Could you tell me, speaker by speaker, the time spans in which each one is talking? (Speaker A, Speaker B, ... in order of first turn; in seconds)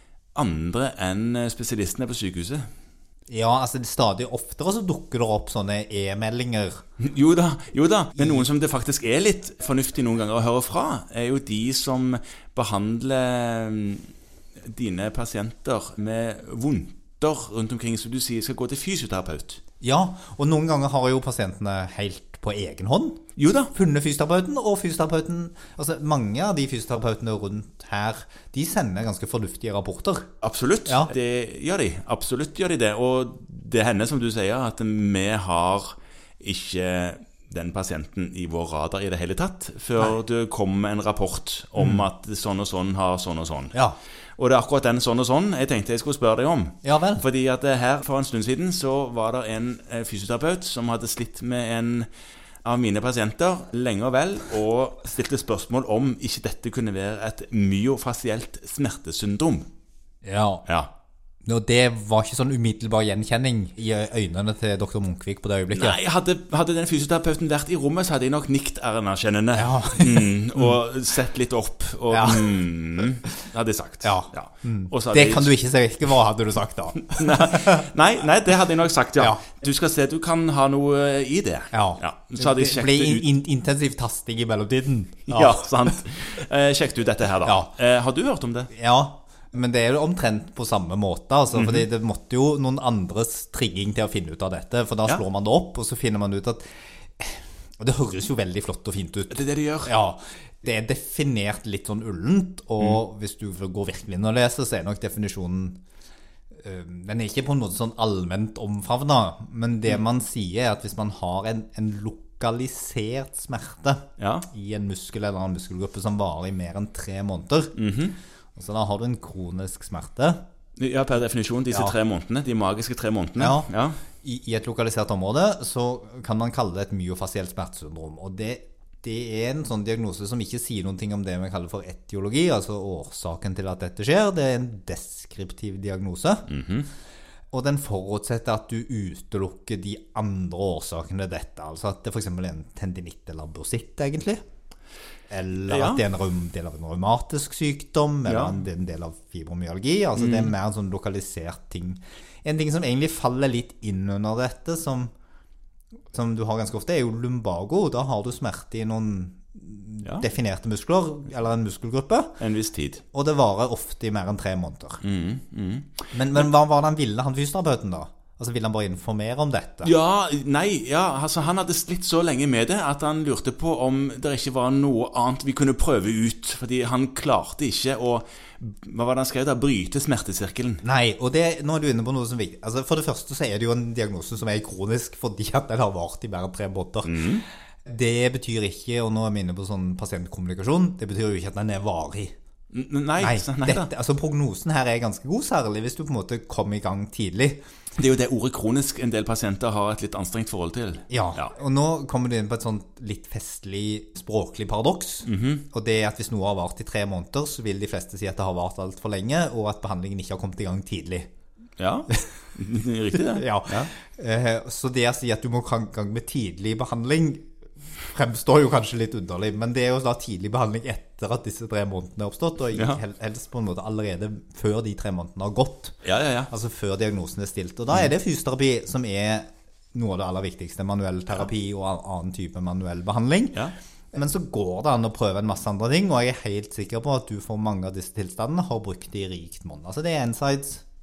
Speaker A: 0.3-2.7, 7.0-14.1, 14.6-19.6, 23.4-23.7, 30.4-43.8, 44.4-52.1, 52.6-59.7, 60.6-60.9, 65.7-75.5, 77.0-83.2, 85.3-88.7, 91.5-91.9, 99.3-99.9, 114.2-114.5, 117.8-118.2, 120.8-124.0, 136.5-136.9, 145.7-146.0, 148.2-148.6, 150.2-150.5, 162.4-163.0, 165.0-166.5, 169.8-180.8, 187.0-187.4, 192.7-193.9, 197.9-201.5, 205.2-205.7, 211.8-213.9, 222.7-223.0, 226.0-226.5
Speaker B: 3.3-6.8, 8.2-8.5, 19.8-30.3, 30.9-31.1, 41.8-42.0, 46.8-47.2, 60.2-60.6, 61.4-66.0, 69.5-70.7, 72.1-72.5, 74.0-77.8, 81.7-85.9, 87.4-87.7, 88.7-105.8, 106.6-117.7, 118.5-120.4, 123.4-136.5, 137.5-144.4, 145.3-155.1, 156.1-162.4, 163.1-165.0, 166.1-169.9, 180.8-187.3, 187.8-192.3, 193.2-197.6, 201.1-211.3, 213.1-217.5, 218.0-240.8